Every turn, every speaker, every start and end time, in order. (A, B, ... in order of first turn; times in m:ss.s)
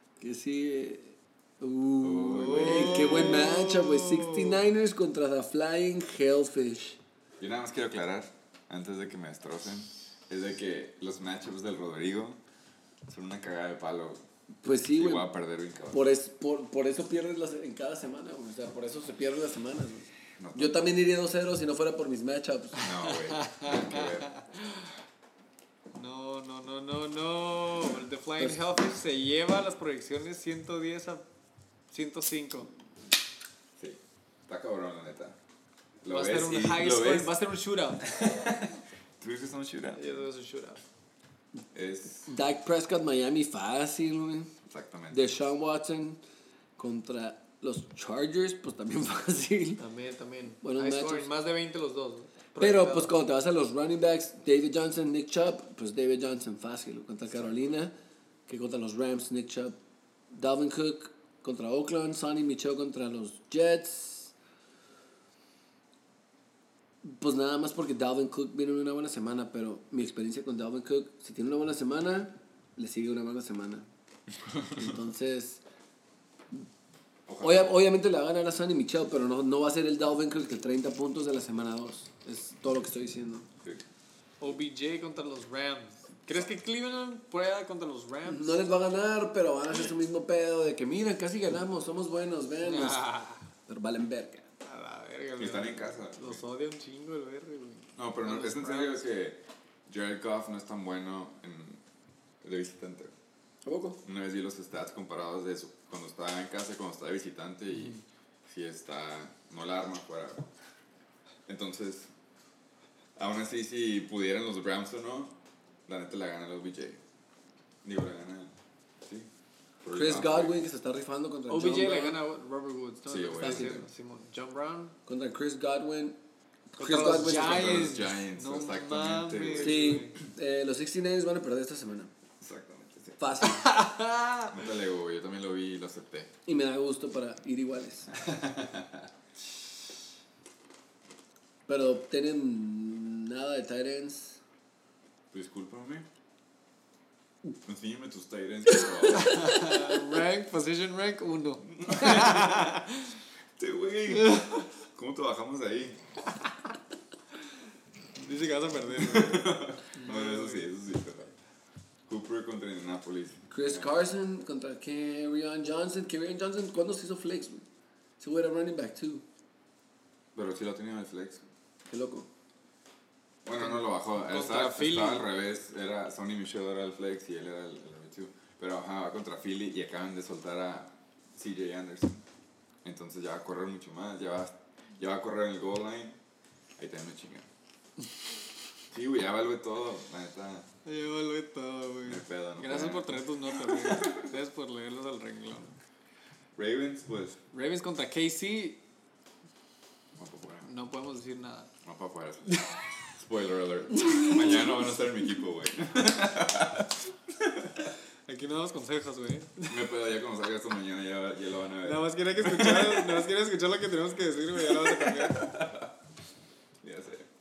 0:00.2-0:07.0 A
0:02.0-0:03.6 B
0:02.4-0:04.6 C
0:07.4-0:12.4 B
0:13.1-0:14.2 B
0:14.6-0:15.3 A
0:14.9-0:16.0 B
0:15.9-0:22.9 A
0:20.4-0:20.9 B
0:22.8-0:24.3 B
0:23.0-0:24.9 C
0:25.9-0:31.2 C
0:31.9-0:32.7 C
0:33.8-0:35.4 B
0:36.0-0:37.4 B
0:36.1-0:38.0 C
0:38.0-0:40.0 B
0:39.9-0:40.8 C
0:41.7-0:42.3 B
0:42.3-0:44.5 A
0:44.6-0:45.4 B
0:45.1-0:46.2 A
0:46.8-0:49.8 A
0:49.8-0:53.1 C
0:50.6-0:51.3 A
0:52.6-0:57.9 A
0:58.5-0:59.8 A
1:00.3-1:04.3 A
1:07.0-1:13.8 A
1:14.7-1:15.6 A
1:17.3-1:17.7 B
1:17.4-1:23.5 A
1:24.4-1:28.6 C
1:28.2-1:33.1 A
1:32.6-1:33.4 C
1:33.7-1:34.5 A
1:34.6-1:39.0 C
1:35.4-1:36.4 B
1:38.0-1:41.8 B
1:42.4-1:43.1 B
1:43.6-1:44.0 A
1:44.0-1:50.4 B
1:51.4-1:52.1 B
1:53.2-1:57.0 B
1:57.8-1:59.3 B
1:59.8-2:00.6 B
1:59.9-2:02.2 A
2:01.5-2:04.9 C
2:03.1-2:03.8 B
2:03.4-2:03.7 A
2:05.1-2:06.2 A
2:06.7-2:07.8 A
2:06.8-2:10.2 C
2:07.2-2:10.1 B
2:09.5-2:12.1 A
2:12.4-2:13.4 B
2:13.2-2:13.7 A
2:13.4-2:14.5 C
2:14.5-2:16.3 B
2:16.4-2:18.1 A
2:18.1-2:19.1 B
2:21.7-2:24.4 A
2:25.3-2:26.1 B
2:27.6-2:29.5 B
2:29.1-2:33.2 C
2:31.7-2:32.7 B
2:33.6-2:36.0 B
2:34.1-2:34.6 C
2:38.2-2:40.7 C
2:38.9-2:41.3 B
2:42.1-2:43.9 B
2:43.5-2:47.6 A
2:48.2-2:49.2 A
2:50.3-2:51.4 B
2:51.9-2:52.3 A
2:53.4-3:02.2 B
2:53.6-2:55.3 C
3:02.8-3:06.2 B
3:06.8-3:07.5 B
3:08.9-3:10.7 B
3:10.8-3:15.8 C
3:12.0-3:14.3 B
3:16.6-3:17.4 B
3:17.5-3:18.8 C
3:20.2-3:20.7 B
3:20.6-3:21.7 C
3:21.8-3:27.9 B
3:28.3-3:29.8 C
3:29.7-3:33.3 B
3:31.8-3:35.5 C
3:34.6-3:35.9 B
3:36.8-3:37.3 B